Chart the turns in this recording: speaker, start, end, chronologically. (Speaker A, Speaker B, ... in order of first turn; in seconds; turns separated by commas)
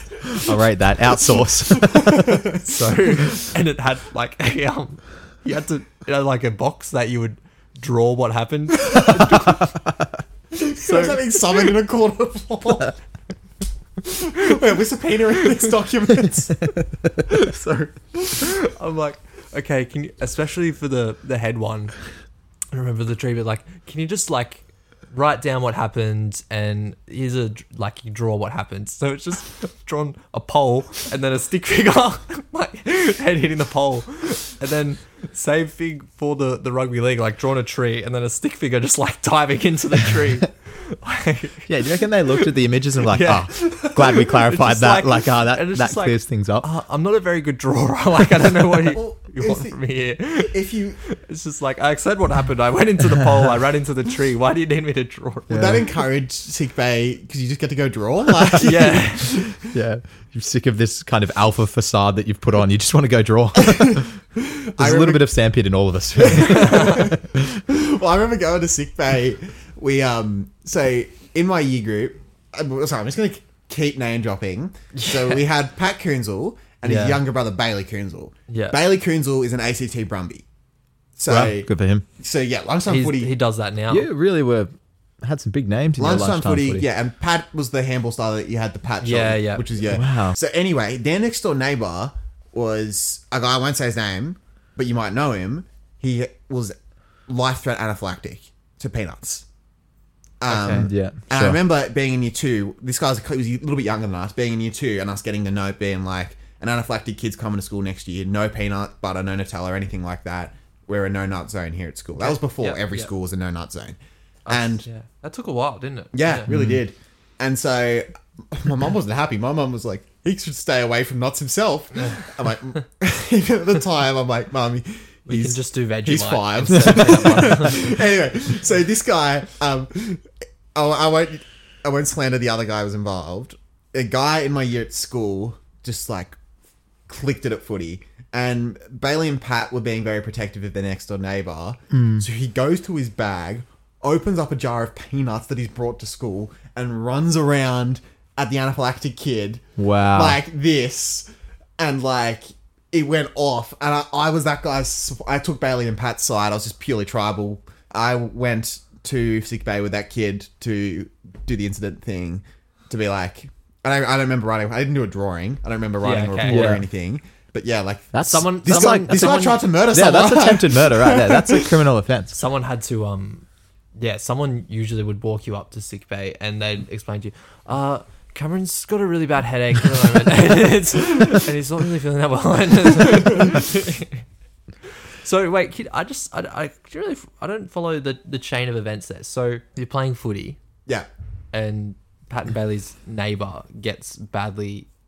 Speaker A: 0.3-2.4, Speaker B: 1.7-2.6, Speaker C: 2.5-9.7, Speaker A: 9.2-10.1, Speaker B: 10.5-12.9, Speaker C: 10.7-11.7, Speaker B: 14.1-16.6, Speaker C: 17.3-21.9, Speaker C: 22.7-55.8, Speaker A: 41.6-46.7, Speaker B: 48.9-49.8, Speaker B: 50.3-51.0, Speaker A: 55.5-55.8, Speaker B: 55.5-59.7, Speaker C: 58.6-59.4, Speaker A: 59.5-64.2, Speaker B: 63.6-65.2, Speaker A: 64.8-67.6, Speaker B: 66.2-80.4, Speaker C: 66.5-67.0, Speaker C: 75.0-75.4, Speaker C: 76.8-77.2, Speaker C: 78.5-78.8, Speaker B: 81.2-83.3, Speaker A: 81.3-82.0, Speaker C: 82.9-84.1, Speaker A: 83.9-86.8, Speaker B: 86.0-96.7, Speaker C: 89.0-89.7, Speaker A: 89.9-90.4, Speaker B: 97.3-99.5, Speaker B: 100.4-114.0, Speaker C: 100.5-100.9, Speaker A: 100.8-101.6, Speaker C: 112.2-113.1, Speaker C: 114.5-116.5, Speaker B: 114.5-114.9, Speaker B: 116.1-136.4, Speaker A: 116.5-116.8, Speaker C: 122.0-122.3, Speaker C: 125.3-127.9, Speaker B: 137.1-151.2, Speaker A: 141.9-142.2, Speaker A: 149.8-150.4, Speaker B: 151.8-171.7, Speaker C: 166.0-166.8, Speaker A: 166.4-166.8, Speaker A: 168.1-172.4, Speaker C: 168.2-169.6, Speaker C: 172.3-173.4, Speaker C: 174.0-184.2, Speaker C: 185.2-190.6, Speaker C: 191.5-194.9